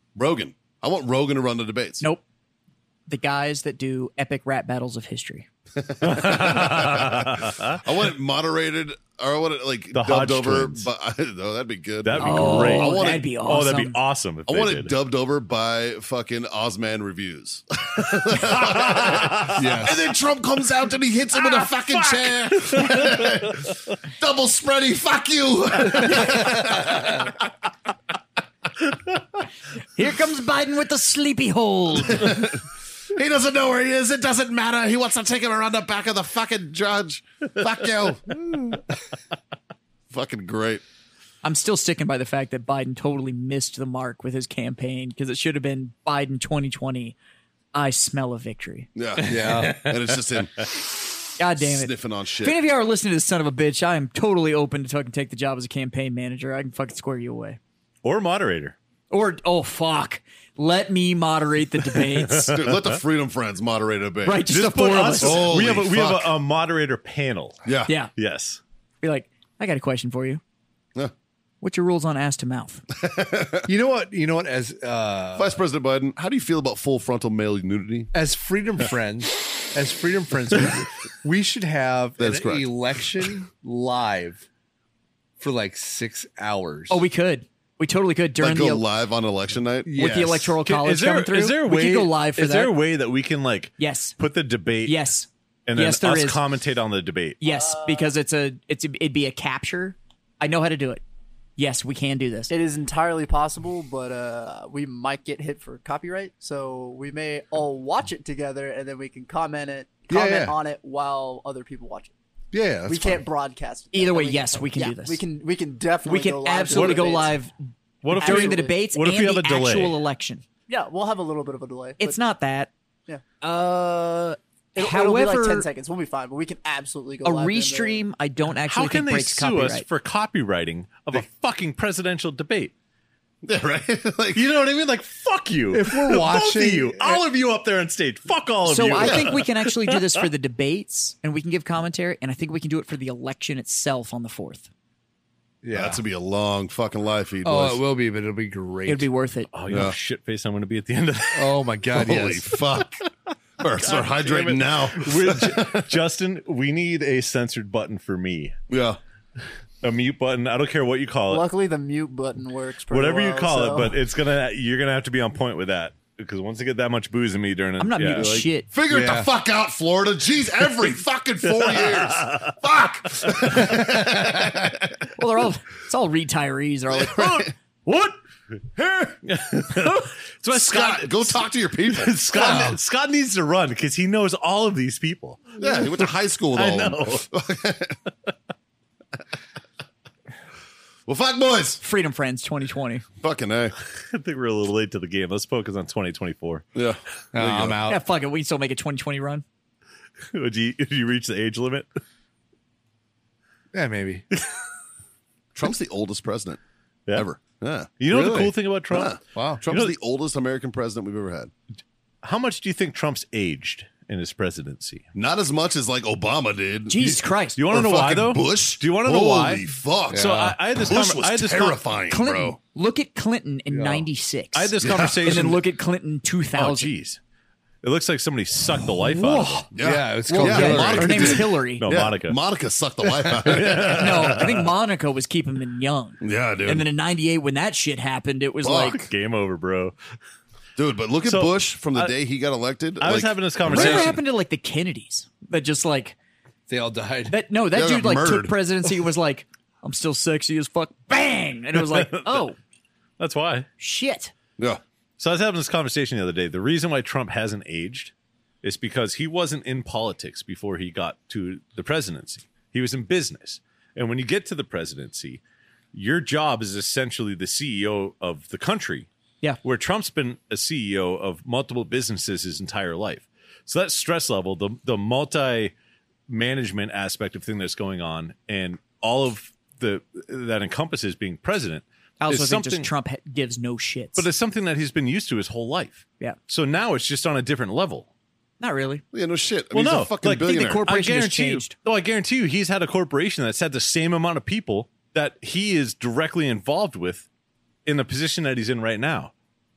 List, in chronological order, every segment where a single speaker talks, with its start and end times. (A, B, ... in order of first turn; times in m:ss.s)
0:00.2-0:02.0 A
0:03.1-0:05.5 B
0:05.8-0:13.3 A
0:06.0-0:07.8 C
0:09.9-0:10.9 C
0:12.0-0:14.9 C
0:12.2-0:14.0 B
0:14.5-0:27.4 A
0:18.3-0:19.9 C
0:19.6-0:20.0 D
0:21.3-0:23.3 C
0:30.0-0:32.4 B
0:32.1-0:38.7 A
0:40.1-0:40.8 A
0:41.4-0:47.2 B
0:47.7-0:48.9 B
0:49.0-0:52.6 A
0:49.2-0:49.8 D
0:49.4-0:49.9 C
0:51.4-0:57.6 B
0:58.0-0:58.8 C
0:59.1-1:02.6 B
1:02.4-1:03.0 C
1:02.5-1:04.5 A
1:04.2-1:05.5 B
1:04.5-1:07.6 C
1:05.2-1:06.3 A
1:07.6-1:07.9 A
1:07.9-1:08.1 B
1:08.2-1:08.6 C
1:09.0-1:10.4 B
1:11.6-1:12.8 B
1:13.0-1:13.7 A
1:13.6-1:15.6 D
1:15.4-1:18.1 A
1:18.1-1:24.4 D
1:22.2-1:23.3 A
1:25.4-1:27.0 D
1:26.9-1:28.8 B
1:28.4-1:30.0 A
1:29.8-1:30.6 D
1:29.9-1:32.8 B
1:30.7-1:35.2 C
1:33.8-1:34.2 B
1:34.8-1:36.4 B
1:35.7-1:37.4 C
1:37.4-1:41.0 B
1:37.5-1:38.1 E
1:41.6-1:42.5 B
1:42.5-1:52.1 E
1:50.1-1:50.6 D
1:52.5-1:53.2 D
1:52.9-1:57.4 E
1:53.9-1:55.2 B
1:56.0-1:57.5 B
1:56.7-1:57.2 C
1:58.0-2:00.0 C
1:58.1-1:58.7 E
1:58.1-2:00.4 B
2:00.7-2:02.2 E
2:02.0-2:02.7 B
2:03.4-2:05.7 B
2:04.8-2:08.0 E
2:07.2-2:09.9 B
2:08.7-2:12.7 C
2:13.4-2:14.5 A
2:14.3-2:20.2 C
2:15.7-2:17.2 D
2:18.6-2:24.7 B
2:19.0-2:19.2 A
2:25.6-2:26.0 D
2:25.7-2:27.8 A
2:27.4-2:29.1 D
2:28.9-2:29.5 B
2:29.5-2:31.6 C
2:29.7-2:30.0 A
2:31.3-2:32.6 D
2:32.0-2:33.0 A
2:33.6-2:35.9 A
2:33.8-2:38.6 C
2:38.7-2:39.0 A
2:39.8-2:41.5 C
2:41.3-2:44.0 E
2:42.9-2:48.4 C
2:47.8-2:48.7 B
2:48.1-2:55.1 A
2:48.9-2:49.3 D
2:51.4-2:52.5 C
2:53.2-2:53.8 C
2:55.2-2:57.4 B
2:56.9-2:57.5 A
2:57.2-2:58.2 C
2:58.8-2:59.2 A
2:59.2-3:07.3 C
3:00.5-3:02.6 A
3:02.3-3:02.8 D
3:05.6-3:08.0 A
3:11.1-3:11.8 A
3:11.8-3:13.0 B
3:13.2-3:13.8 A
3:14.0-3:16.7 C
3:16.8-3:17.8 A
3:17.3-3:18.0 D
3:17.9-3:19.4 B
3:20.3-3:21.9 C
3:23.7-3:24.2 D
3:25.6-3:26.6 A
3:27.1-3:31.5 A
3:28.0-3:30.0 C
3:29.3-3:29.6 D
3:32.2-3:35.0 C
3:35.1-3:42.6 A
3:36.9-3:37.6 B
3:37.6-3:41.8 C
3:40.1-3:40.6 D
3:42.1-3:46.9 B
3:43.7-3:44.1 D
3:44.5-3:45.6 C
3:44.8-3:45.6 A
3:46.6-3:47.2 C
3:47.8-3:49.7 C
3:49.0-3:49.7 B
3:49.7-3:54.3 A
3:49.8-3:51.4 D
3:50.3-3:51.9 B
3:51.2-3:52.4 C
3:53.2-3:53.8 D
3:53.4-3:54.7 C
3:53.9-3:59.1 B
3:56.2-3:56.9 A
3:58.6-3:59.1 A
3:59.0-4:00.0 C
4:00.8-4:04.2 A
4:01.2-4:02.1 C
4:03.0-4:04.2 C
4:03.7-4:06.2 B
4:06.7-4:07.4 D
4:07.3-4:12.6 B
4:07.7-4:08.5 A
4:11.8-4:12.4 C
4:13.2-4:13.7 C
4:13.8-4:14.3 B
4:15.2-4:25.4 C
4:25.9-4:29.1 C
4:29.6-4:35.7 C
4:36.3-4:42.9 C
4:42.2-4:44.3 B
4:44.2-4:48.1 C
4:48.6-4:49.0 B
4:49.1-4:50.8 A
4:49.7-4:57.3 C
4:50.4-4:51.8 B
4:57.9-4:59.3 C